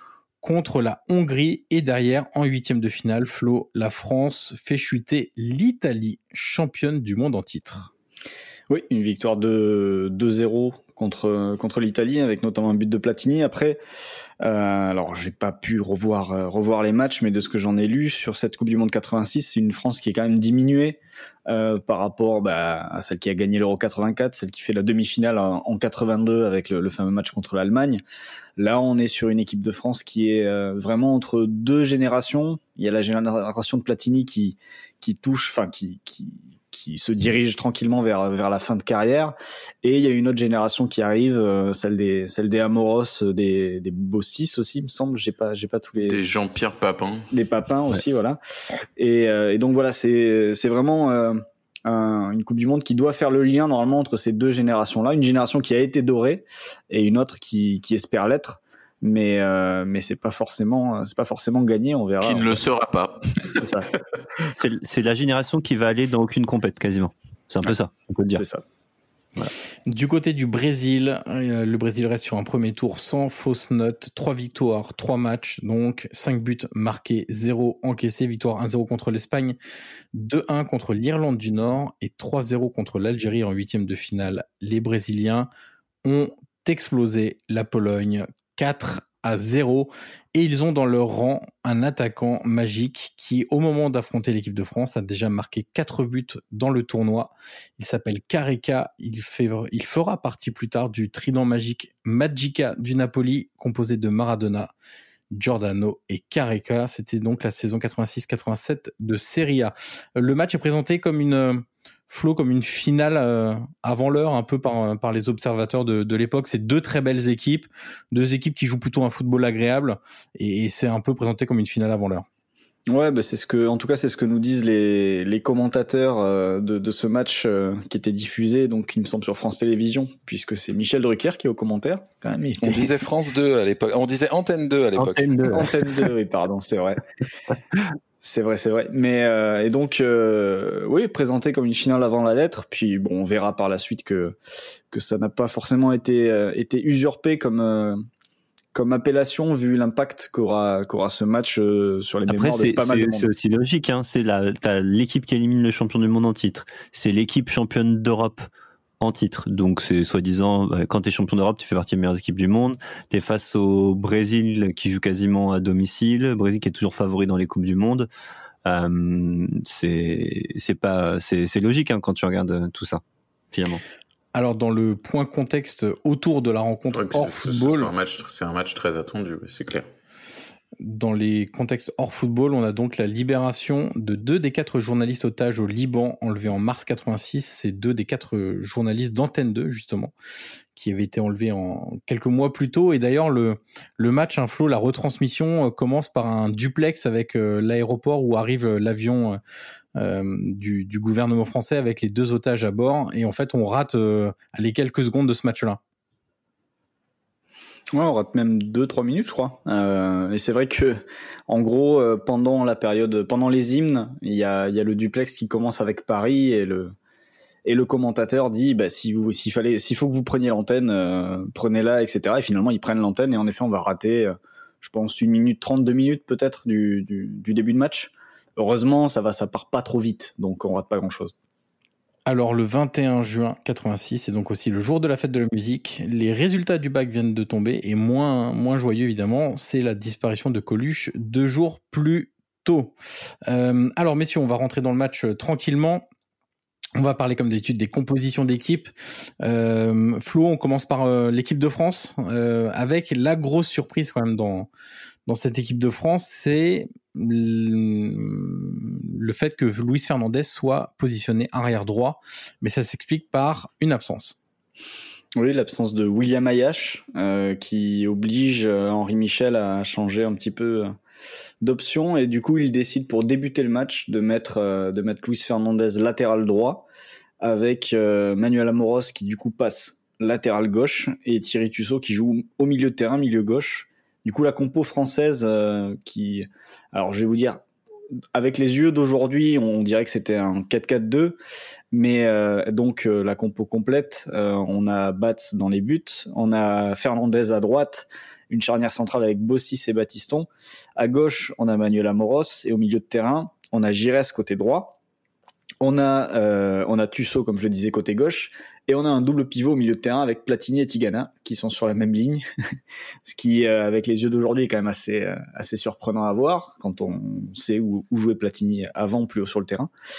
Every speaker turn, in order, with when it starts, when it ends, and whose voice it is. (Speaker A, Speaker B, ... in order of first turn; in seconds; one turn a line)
Speaker A: 0.4-7.9
Speaker B: 8.7-13.8
Speaker B: 14.4-28.0
Speaker B: 28.6-46.2
Speaker C: 46.0-47.3
Speaker B: 47.3-48.4
Speaker B: 49.0-62.6
Speaker C: 62.2-63.8
Speaker B: 63.5-63.9
Speaker D: 64.6-68.4
Speaker B: 68.3-68.6
Speaker A: 69.9-79.6
Speaker A: 80.1-85.5
Speaker A: 86.0-104.7
Speaker A: 105.3-122.2
Speaker B: 122.9-132.9
Speaker E: 132.6-135.4
Speaker D: 134.9-135.8
Speaker B: 135.5-137.0
Speaker B: 138.2-144.3
Speaker B: 144.9-148.0
Speaker B: 148.7-153.3
Speaker D: 152.3-158.4
Speaker D: 159.0-168.1
Speaker D: 168.6-173.0
Speaker D: 173.5-173.8
Speaker A: 174.3-177.9
Speaker C: 176.9-179.8
Speaker A: 180.8-190.1
Speaker A: 190.7-199.4
Speaker A: 199.9-205.8
Speaker B: 207.9-216.9
Speaker B: 217.6-231.3
Speaker A: 232.2-242.9
Speaker A: 243.5-246.1
Speaker A: 247.0-254.7
Speaker A: 255.3-264.4
Speaker B: 265.4-270.9
Speaker B: 271.6-276.9
Speaker B: 277.4-287.6
Speaker B: 288.3-291.4
Speaker B: 291.9-304.9
Speaker B: 305.8-312.4
Speaker B: 313.2-319.9